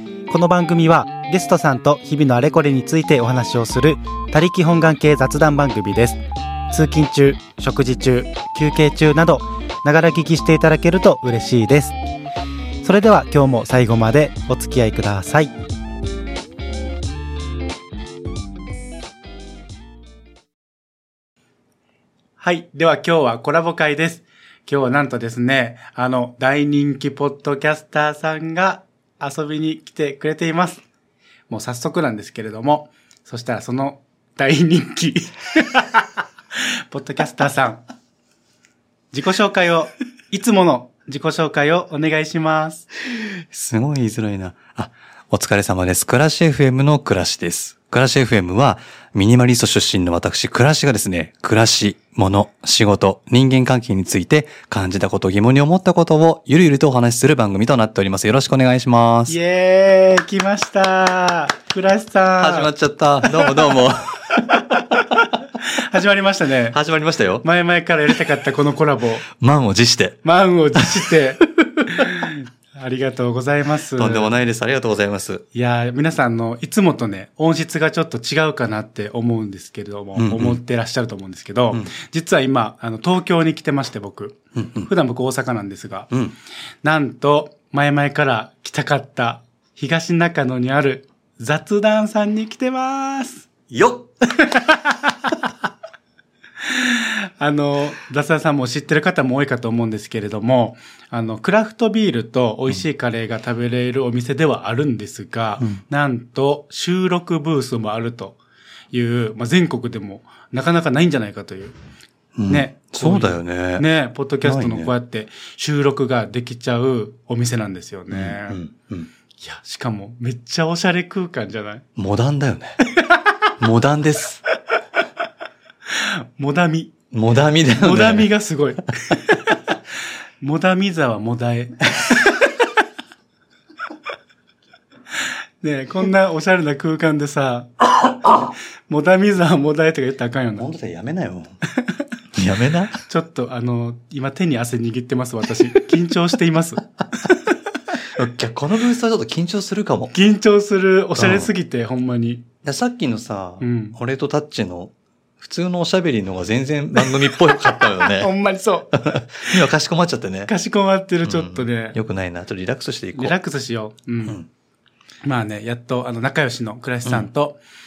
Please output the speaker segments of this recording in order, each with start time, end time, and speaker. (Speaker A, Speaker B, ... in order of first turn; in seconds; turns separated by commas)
Speaker A: 0.3-12.0, Speaker A: 12.8-15.5, Speaker A: 22.4-30.8, Speaker A: 31.5-37.8, Speaker A: 39.1-42.9, Speaker B: 43.1-59.4, Speaker A: 59.3-62.7, Speaker B: 62.4-65.2, Speaker A: 63.2-63.7, Speaker A: 64.5-65.0, Speaker A: 65.6-66.8, Speaker B: 66.7-67.5, Speaker A: 67.4-69.3, Speaker B: 69.3-70.2, Speaker A: 70.2-74.4, Speaker B: 70.8-71.1, Speaker B: 71.7-72.1, Speaker B: 74.0-75.5, Speaker A: 75.5-86.1, Speaker B: 80.2-80.6, Speaker B: 84.5-84.9, Speaker B: 86.1-86.4, Speaker A: 86.8-93.5, Speaker B: 93.7-94.5, Speaker A: 94.4-95.3, Speaker A: 96.6-108.4, Speaker A: 108.9-111.7, Speaker B: 112.4-113.8, Speaker A: 112.5-118.6, Speaker B: 114.4-114.9, Speaker B: 118.1-119.1, Speaker A: 119.4-121.8, Speaker B: 122.0-122.8, Speaker A: 122.9-123.5, Speaker B: 123.6-124.4, Speaker A: 125.9-127.0, Speaker B: 127.1-128.3, Speaker A: 127.8-129.8, Speaker A: 130.4-132.4, Speaker A: 135.6-138.0, Speaker A: 138.9-140.7, Speaker B: 140.6-141.6, Speaker A: 141.8-142.0, Speaker B: 142.3-143.0, Speaker A: 143.1-147.6, Speaker B: 148.0-150.1, Speaker A: 150.1-152.4, Speaker B: 151.2-151.5, Speaker B: 152.6-158.3, Speaker A: 153.6-154.0, Speaker A: 157.0-159.6, Speaker B: 158.9-160.5, Speaker A: 160.5-162.0, Speaker B: 161.2-163.3, Speaker A: 163.1-164.4, Speaker A: 165.2-167.6